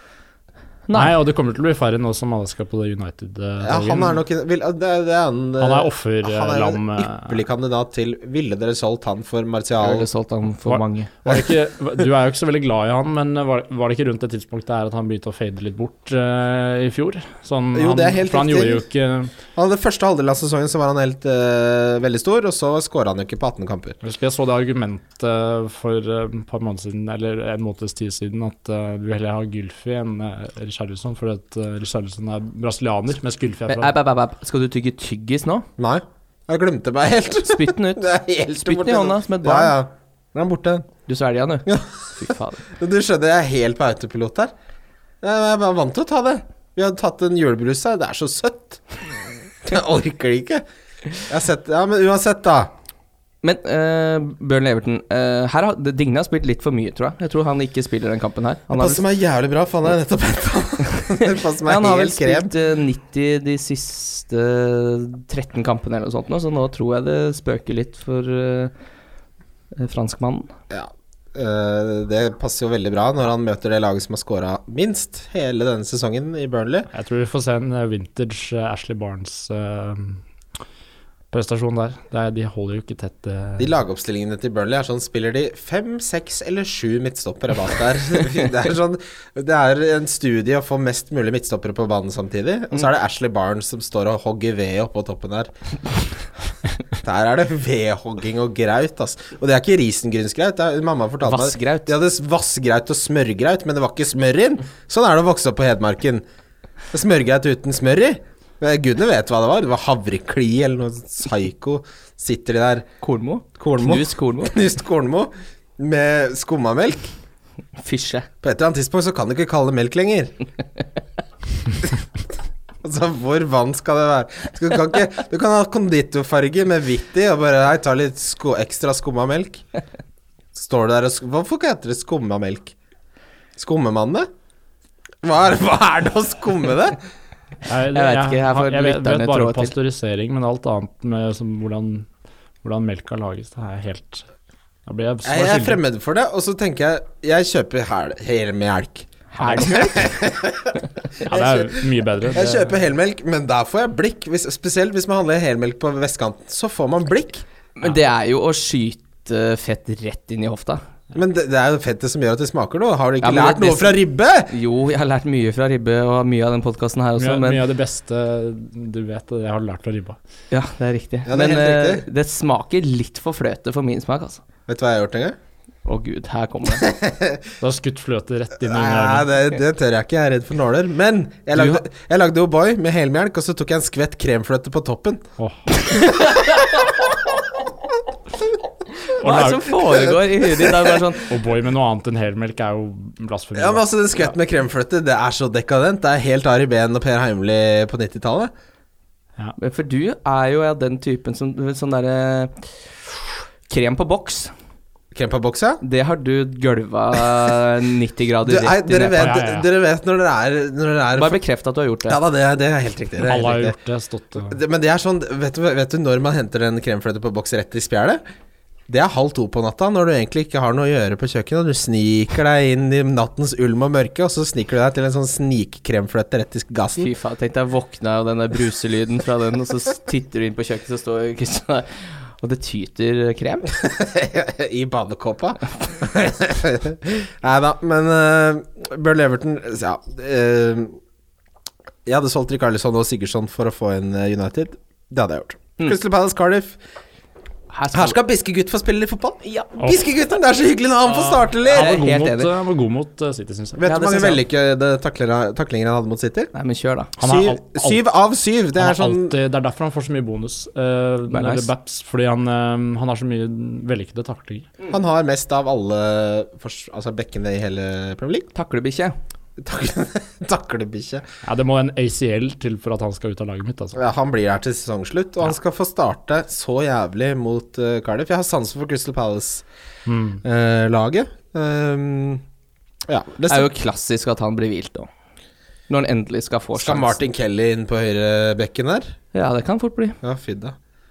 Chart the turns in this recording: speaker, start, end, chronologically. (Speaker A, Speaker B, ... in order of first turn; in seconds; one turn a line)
Speaker A: 0.9-1.2
Speaker B: 0.9-4.2
Speaker C: 3.6-10.1
Speaker B: 5.6-7.4
Speaker A: 9.8-11.1
Speaker B: 10.7-19.4
Speaker C: 17.7-18.8
Speaker C: 19.5-24.0
Speaker B: 24.0-33.9
Speaker A: 33.7-35.7
Speaker C: 35.8-40.9
Speaker A: 37.5-39.8
Speaker A: 41.1-42.6
Speaker C: 41.7-44.5
Speaker C: 45.2-50.6
Speaker C: 51.2-52.7
Speaker A: 53.4-59.0
Speaker C: 58.7-62.5
Speaker A: 61.2-68.7
Speaker A: 69.8-70.5
Speaker C: 70.7-76.9
Speaker B: 76.9-80.2
Speaker B: 81.3-83.7
Speaker C: 83.6-95.5
Speaker C: 96.9-106.2
Speaker A: 101.2-101.9
Speaker C: 106.9-112.9
Speaker A: 113.0-114.6
Speaker C: 113.6-117.1
Speaker A: 117.8-118.3
Speaker C: 118.4-120.3
Speaker C: 122.8-129.6
Speaker C: 130.5-132.8
Speaker C: 133.6-134.3
Speaker C: 135.2-137.0
Speaker B: 137.7-142.1
Speaker A: 137.9-139.7
Speaker B: 142.6-144.3
Speaker B: 144.9-145.8
Speaker C: 145.2-157.4
Speaker A: 149.3-150.2
Speaker B: 151.2-152.8
Speaker A: 157.8-160.8
Speaker C: 161.1-164.5
Speaker A: 163.2-167.6
Speaker B: 167.2-170.2
Speaker A: 170.5-174.4
Speaker C: 171.3-172.1
Speaker C: 174.7-175.4
Speaker A: 175.8-176.9
Speaker C: 176.8-177.4
Speaker B: 177.6-179.3
Speaker C: 178.6-185.2
Speaker B: 185.4-185.7
Speaker A: 185.9-186.9
Speaker A: 189.1-191.3
Speaker B: 189.2-189.8
Speaker C: 190.6-190.9
Speaker B: 191.3-193.8
Speaker C: 193.6-198.5
Speaker A: 199.6-202.7
Speaker A: 203.7-204.5
Speaker C: 205.1-205.8
Speaker A: 205.8-209.3
Speaker C: 208.4-211.4
Speaker B: 209.1-209.7
Speaker A: 211.2-212.2
Speaker C: 212.1-213.8
Speaker B: 213.2-214.6
Speaker C: 214.5-218.2
Speaker C: 218.9-227.1
Speaker A: 227.0-233.7
Speaker C: 233.8-241.0
Speaker C: 242.1-246.8
Speaker A: 247.7-248.2
Speaker C: 247.9-252.0
Speaker A: 251.2-252.5
Speaker B: 251.6-253.8
Speaker C: 253.8-256.5
Speaker A: 253.8-254.4
Speaker A: 256.5-257.1
Speaker B: 257.2-258.0
Speaker C: 257.2-259.4
Speaker B: 258.8-264.7
Speaker A: 261.3-261.7
Speaker C: 264.9-268.5
Speaker A: 268.6-269.1
Speaker C: 269.6-271.2
Speaker B: 271.4-274.0
Speaker C: 273.9-279.6
Speaker B: 280.1-280.4
Speaker C: 280.4-282.4
Speaker C: 283.1-283.7
Speaker A: 283.5-285.1
Speaker A: 285.9-287.2
Speaker C: 286.8-289.2
Speaker A: 289.3-290.2
Speaker C: 290.2-290.8